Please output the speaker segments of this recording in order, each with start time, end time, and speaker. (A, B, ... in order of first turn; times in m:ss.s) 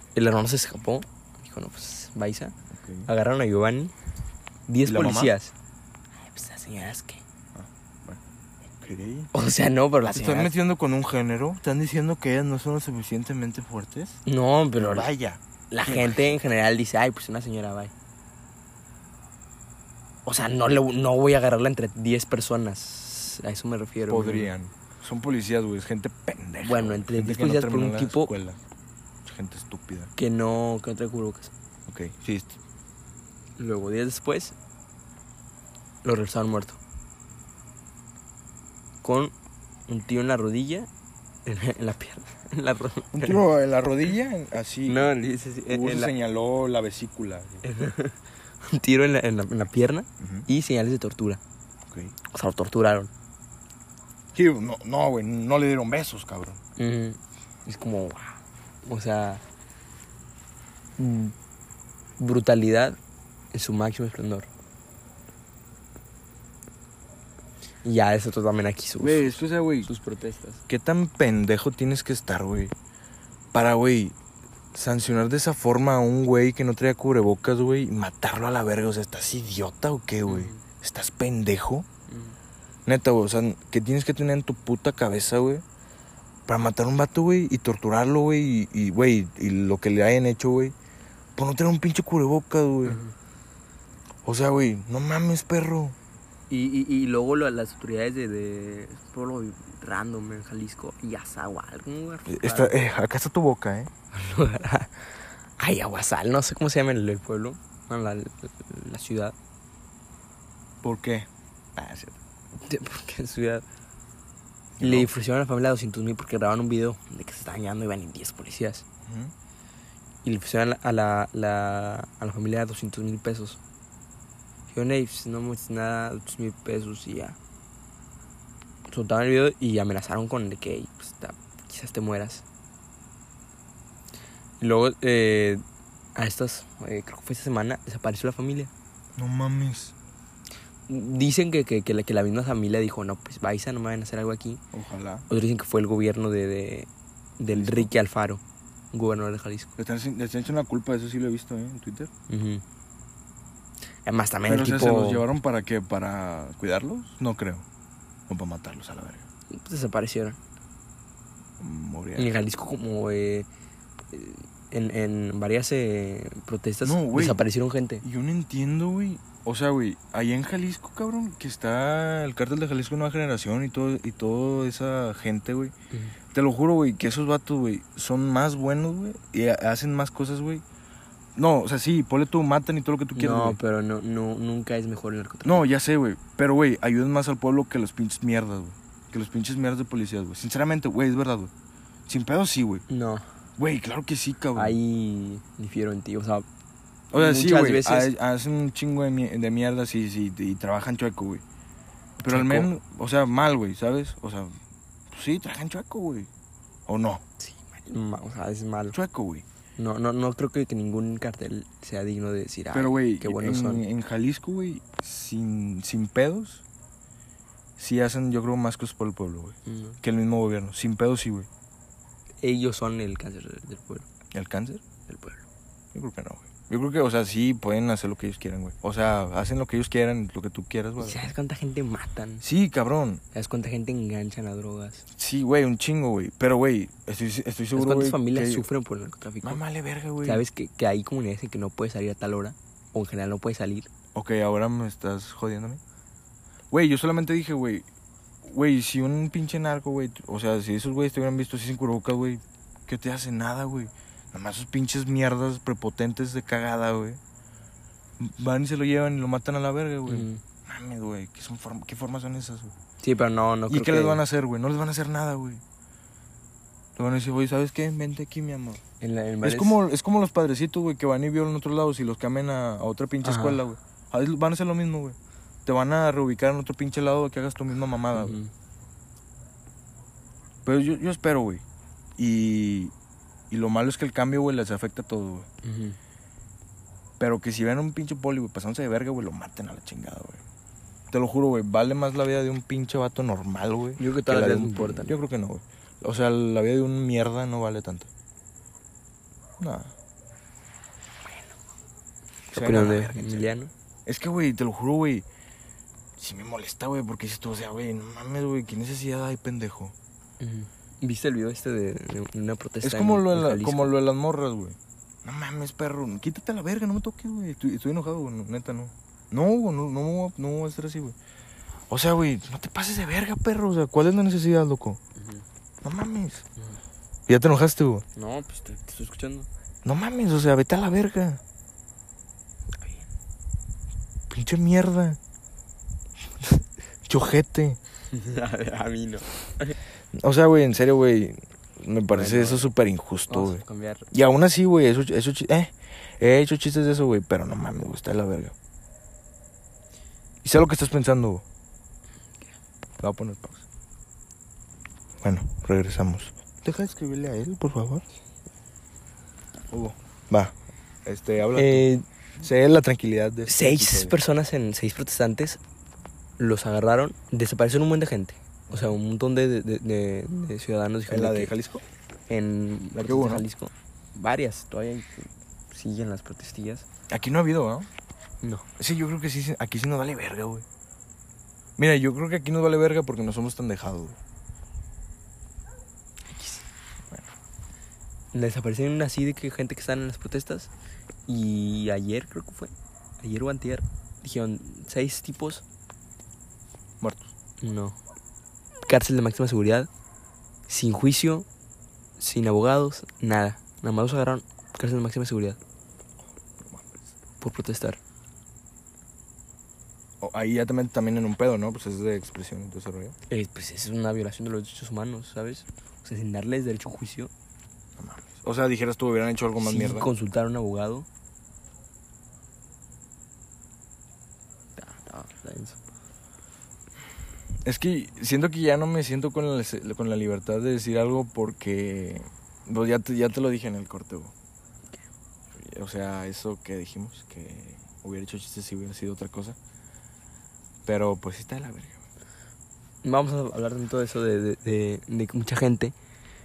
0:00.2-0:02.6 A
0:02.7-0:03.1 B
0:03.1-0:03.9 A
0:04.7-0:05.5 A
0:04.8-0:05.3 B
0:06.2-0:07.2 A
0:07.6-0:09.3 B
0:09.3-0:10.5 A
0:10.1-0:14.2 B
0:14.2-0:15.1 A
0:14.8-0:16.3 B
0:15.7-0:17.9 A
0:20.2-0:24.5 A
0:24.1-0:28.6 B
0:26.6-0:28.3 A
0:29.2-0:30.1 B
0:30.2-0:31.5 A
0:31.9-0:32.6 B
0:33.6-0:34.6 A
0:36.0-0:36.8 A
0:39.0-0:39.3 A
0:39.9-0:40.9 A
0:41.4-0:43.4 A
0:43.1-0:45.2 B
0:44.9-0:46.1 A
0:45.7-0:47.6 B
0:47.6-0:51.4 A
0:50.2-0:50.5 B
0:51.9-0:52.2 B
0:52.3-0:53.1 A
0:54.4-0:56.6 B
0:56.8-0:59.4 A
1:01.0-1:01.4 A
1:02.2-1:03.0 A
1:03.5-1:04.5 A
1:07.8-1:10.6 A
1:09.0-1:09.9 B
1:10.7-1:12.7 B
1:13.5-1:14.2 B
1:14.7-1:21.9 B
1:20.3-1:20.6 A
1:22.1-1:22.4 A
1:22.9-1:25.6 B
1:26.5-1:30.8 B
1:31.4-1:33.0 B
1:32.8-1:33.1 A
1:34.2-1:36.0 B
1:36.5-1:42.8 A
1:42.3-1:43.9 B
1:44.1-1:49.4 A
1:50.8-1:52.2 B
1:52.6-1:53.6 A
1:54.8-1:55.1 B
1:54.8-1:58.8 A
1:59.1-1:59.3 B
2:00.2-2:03.6 A
2:04.7-2:07.4 A
2:08.9-2:12.4 A
2:14.6-2:15.6 A
2:16.2-2:18.7 A
2:19.2-2:19.9 B
2:20.9-2:24.6 A
2:24.7-2:25.3 B
2:25.3-2:29.7 A
2:27.5-2:27.9 B
2:29.8-2:32.1 B
2:32.3-2:32.6 A
2:34.0-2:35.3 A
2:34.5-2:37.6 B
2:38.3-2:39.2 B
2:39.5-2:40.4 A
2:41.6-2:42.3 B
2:42.2-2:43.5 A
2:44.1-2:48.0 A
2:46.8-2:47.4 B
2:48.0-2:55.7 B
2:56.3-3:00.6 B
3:01.4-3:03.6 B
3:03.2-3:05.7 A
3:05.4-3:11.5 B
3:12.1-3:12.8 B
3:12.9-3:13.2 A
3:13.6-3:14.8 B
3:14.6-3:16.5 A
3:17.1-3:21.4 B
3:17.1-3:18.1 A
3:22.2-3:24.6 B
3:22.3-3:22.7 A
3:25.1-3:26.3 B
3:26.9-3:27.2 B
3:27.4-3:29.0 A
3:28.9-3:29.4 B
3:29.8-3:33.8 A
3:32.7-3:36.6 B
3:37.8-3:41.5 B
3:39.7-3:40.0 A
3:42.4-3:44.1 A
3:44.3-3:44.8 B
3:45.1-3:45.4 A
3:45.9-3:51.2 B
3:51.0-3:52.4 A
3:52.4-3:53.2 B
3:53.3-3:55.0 A
3:55.2-3:58.7 B
3:57.8-3:59.6 A
3:59.4-4:00.4 B
4:00.2-4:03.9 A
4:04.2-4:05.8 B
4:06.7-4:07.9 B
4:08.4-4:17.2 B
4:18.2-4:22.7 B
4:20.1-4:20.4 A
4:23.0-4:24.2 A
4:23.7-4:25.6 B
4:27.0-4:28.8 B
4:29.0-4:29.8 A
4:29.4-4:38.4 B
4:33.2-4:33.6 A
4:38.1-4:38.5 A
4:40.6-4:41.6 B
4:42.2-4:42.9 B
4:43.5-4:45.5 B
4:45.6-4:46.0 A
4:47.2-4:50.4 B
4:51.1-4:58.1 B
4:54.0-4:55.2 A
4:59.6-4:59.9 B
5:02.5-5:03.7 A
5:02.5-5:03.5 B
5:04.1-5:05.2 B
5:06.2-5:10.0 B
5:10.4-5:13.9 A
5:12.8-5:21.2 B
5:21.9-5:25.0 B
5:25.2-5:25.4 A
5:25.8-5:26.4 B
5:27.3-5:28.0 B
5:28.2-5:29.5 A
5:29.8-5:31.4 B
5:34.3-5:35.2 B
5:37.1-5:37.8 B
5:38.1-5:39.8 A
5:40.2-5:48.6 B
5:42.1-5:42.7 A
5:43.3-5:44.1 A
5:50.4-5:51.4 B
5:53.0-5:53.6 B
5:55.2-5:58.0 B
5:59.7-6:01.9 B
6:01.6-6:02.1 A
6:02.4-6:04.2 B
6:03.5-6:05.6 A
6:06.4-6:11.5 A
6:08.7-6:09.0 B
6:11.1-6:11.8 B
6:12.3-6:16.9 A
6:13.0-6:13.5 B
6:17.1-6:17.9 B
6:18.4-6:18.7 A
6:18.8-6:20.7 B
6:21.8-6:24.2 B
6:26.3-6:26.6 A
6:28.3-6:30.7 A
6:31.3-6:35.6 A
6:37.0-6:37.3 B
6:37.6-6:38.0 A
6:38.8-6:39.9 A
6:40.7-6:41.5 A
6:42.2-6:45.6 A
6:46.6-6:47.1 B
6:47.4-6:48.0 A
6:50.2-6:53.2 B
6:53.3-6:57.3 A
6:58.0-7:00.1 B
6:59.6-7:01.1 A
7:04.8-7:05.8 A
7:07.6-7:14.3 B
7:15.6-7:19.6 B
7:20.9-7:22.0 B
7:23.0-7:25.9 A